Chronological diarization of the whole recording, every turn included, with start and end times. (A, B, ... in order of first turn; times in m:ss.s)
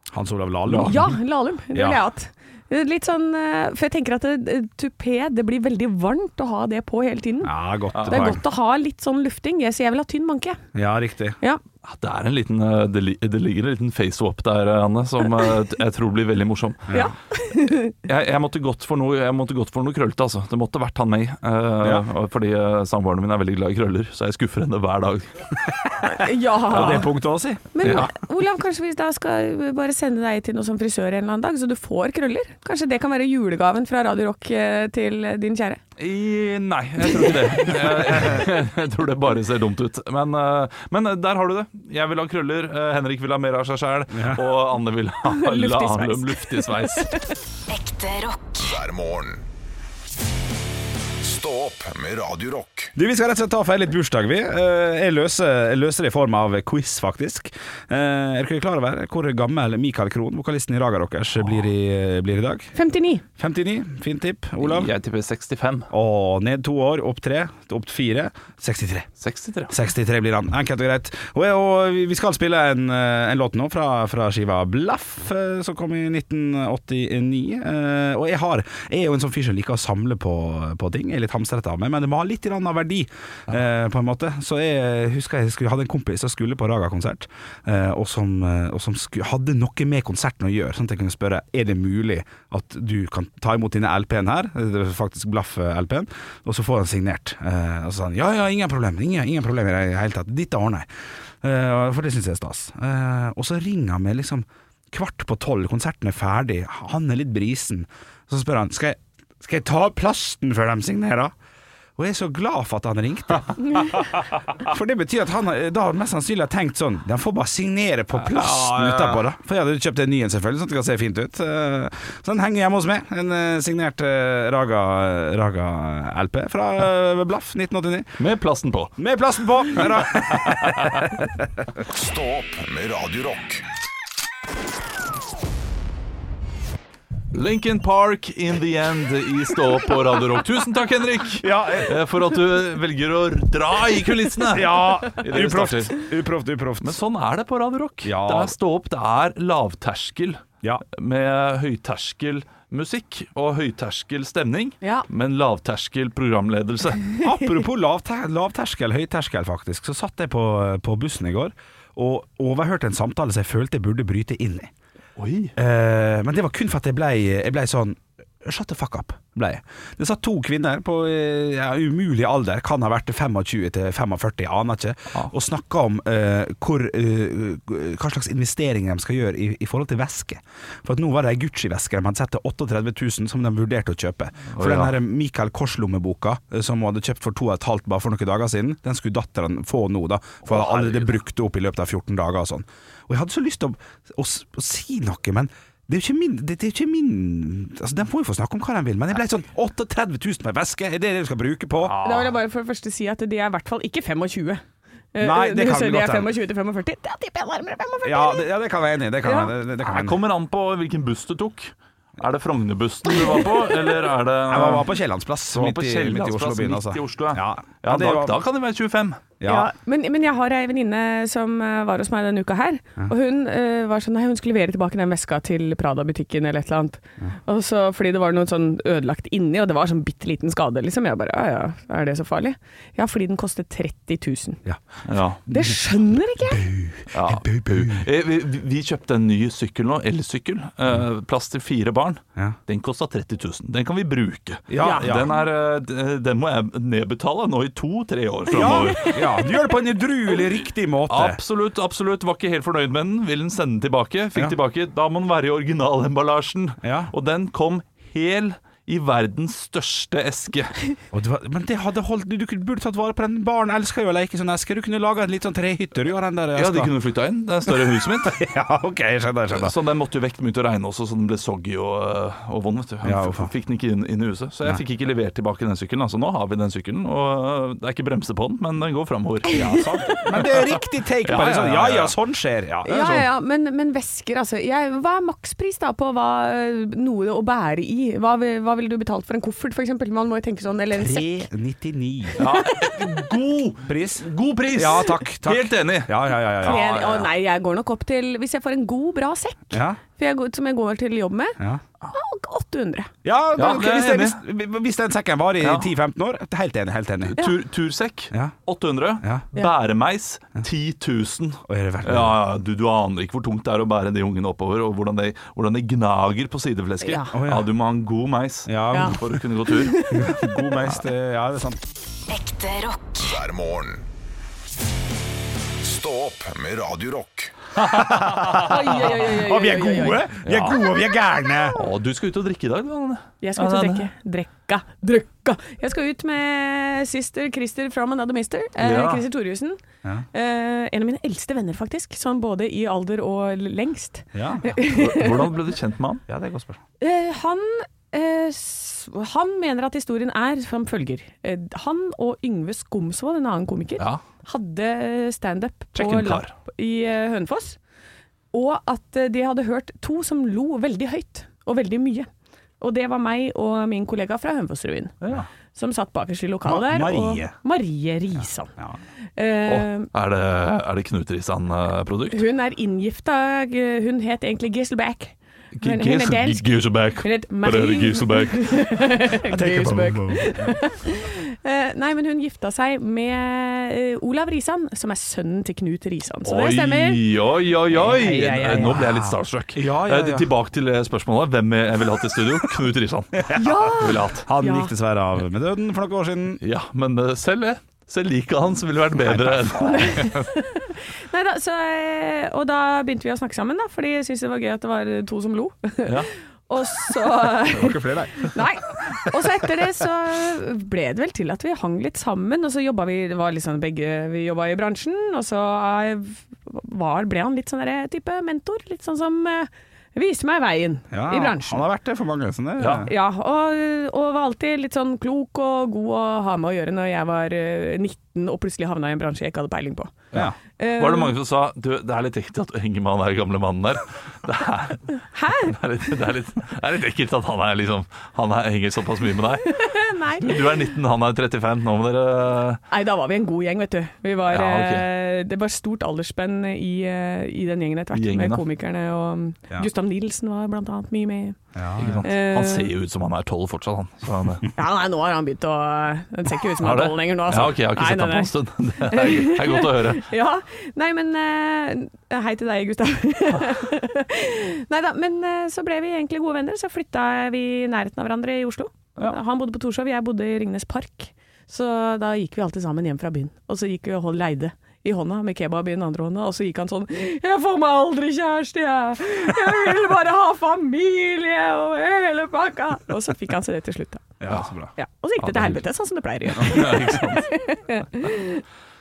0:00.1-0:01.2 A
0:00.7-0:01.0 B
0:00.8-0:07.5 C
0:01.7-0:02.0 A
0:07.4-0:08.4 A
0:07.9-0:08.4 B
0:08.0-0:10.6 C
0:10.7-0:11.4 A
0:11.8-0:16.9 B
0:16.9-0:18.0 C
0:18.0-0:25.6 B
0:21.8-0:22.1 A
0:26.0-0:27.1 C
0:26.7-0:28.1 A
0:27.7-0:35.8 C
0:36.0-0:47.2 B
0:37.2-0:37.9 C
0:44.1-0:44.4 A
0:45.3-0:47.3 C
0:47.7-0:48.8 D
0:48.6-0:49.5 E
0:51.2-0:52.9 E
0:53.0-1:02.7 A
1:02.8-1:03.2 C
1:03.4-1:04.9 A
1:04.6-1:05.9 B
1:05.9-1:09.1 A
1:09.2-1:09.7 B
1:09.7-1:40.9 A
1:41.4-1:51.3 A
1:52.0-2:08.2 A
1:58.2-1:59.2 B
2:08.2-2:08.9 B
2:09.0-2:11.5 A
2:09.7-2:10.9 B
2:11.8-2:13.6 E
2:17.3-2:26.0 B
2:21.4-2:22.0 A
2:24.5-2:27.0 A
2:26.8-2:37.1 B
2:28.0-2:28.6 A
2:37.2-2:44.7 A
2:45.2-2:45.5 B
2:45.6-3:22.0 A
3:04.5-3:04.9 B
3:10.5-3:11.1 B
3:21.8-3:22.3 B
3:22.0-3:24.6 C
3:25.1-3:28.5 C
3:25.2-3:26.3 A
3:28.0-3:30.2 A
3:29.2-3:29.5 C
3:29.8-3:35.0 B
3:33.2-3:33.6 C
3:34.5-3:38.4 A
3:35.5-3:39.2 B
3:39.4-3:39.7 A
3:39.4-3:54.6 C
3:55.1-3:55.4 B
3:55.5-3:55.8 A
3:55.5-3:56.7 C
3:56.4-3:58.0 A
3:57.1-4:09.2 B
4:04.7-4:05.4 A
4:04.8-4:05.1 C
4:08.5-4:11.4 A
4:08.6-4:09.2 C
4:11.1-4:20.8 B
4:16.8-4:17.1 A
4:21.1-4:26.9 A
4:26.6-4:28.4 B
4:27.7-4:29.7 A
4:29.5-4:42.1 B
4:33.0-4:33.5 A
4:39.5-4:40.2 C
4:39.7-4:43.3 A
4:42.8-4:51.5 C
4:50.9-4:52.4 A
4:52.4-4:57.3 B
4:52.4-4:53.0 C
4:53.8-4:56.8 A
4:56.6-5:03.1 C
4:59.7-5:00.0 A
5:03.2-5:07.4 A
5:03.6-5:04.4 B
5:05.6-5:05.9 B
5:07.3-5:20.1 B
5:11.7-5:12.4 A
5:17.0-5:17.4 C
5:17.3-5:17.7 A
5:18.7-5:19.4 A
5:18.9-5:20.5 C
5:20.1-5:21.8 A
5:22.3-5:23.2 D
5:23.2-5:24.1 E
5:25.8-5:27.6 E
5:27.8-5:31.8 A
5:28.1-5:28.6 B
5:28.5-5:30.2 C
5:30.4-5:30.8 B
5:31.8-5:34.1 B
5:33.4-5:39.8 C
5:38.8-5:39.2 B
5:40.3-5:45.5 C
5:44.3-5:44.7 A
5:44.9-5:46.2 B
5:46.3-5:46.8 A
5:47.0-5:57.8 C
5:56.0-5:56.5 B
5:58.5-6:02.3 C
6:02.8-6:05.1 C
6:05.2-6:05.5 B
6:05.7-6:08.7 C
6:06.6-6:07.5 A
6:09.4-6:10.1 C
6:09.7-6:12.4 B
6:12.3-6:27.2 C
6:15.8-6:18.9 B
6:19.5-6:20.8 A
6:26.4-6:34.5 B
6:28.0-6:29.1 C
6:28.0-6:30.5 A
6:33.4-6:33.7 A
6:33.6-6:34.9 C
6:34.3-6:36.6 A
6:36.6-6:40.4 B
6:39.4-6:40.0 A
6:39.7-7:01.8 C
6:47.7-6:48.6 A
7:01.1-7:03.1 A
7:02.8-7:03.1 B
7:03.0-7:10.2 C
7:10.3-7:22.8 B
7:10.8-7:11.3 C
7:15.3-7:15.7 C
7:19.7-7:20.9 C
7:22.9-7:31.6 C
7:24.5-7:25.1 B
7:28.1-7:28.6 B
7:31.8-7:32.2 A
7:32.0-7:34.7 B
7:32.2-7:32.9 C
7:34.8-8:04.3 C
7:36.8-7:40.3 B
8:04.4-8:04.9 A
8:04.5-8:04.8 B
8:05.0-8:08.6 C
8:05.4-8:05.8 B
8:06.5-8:07.5 B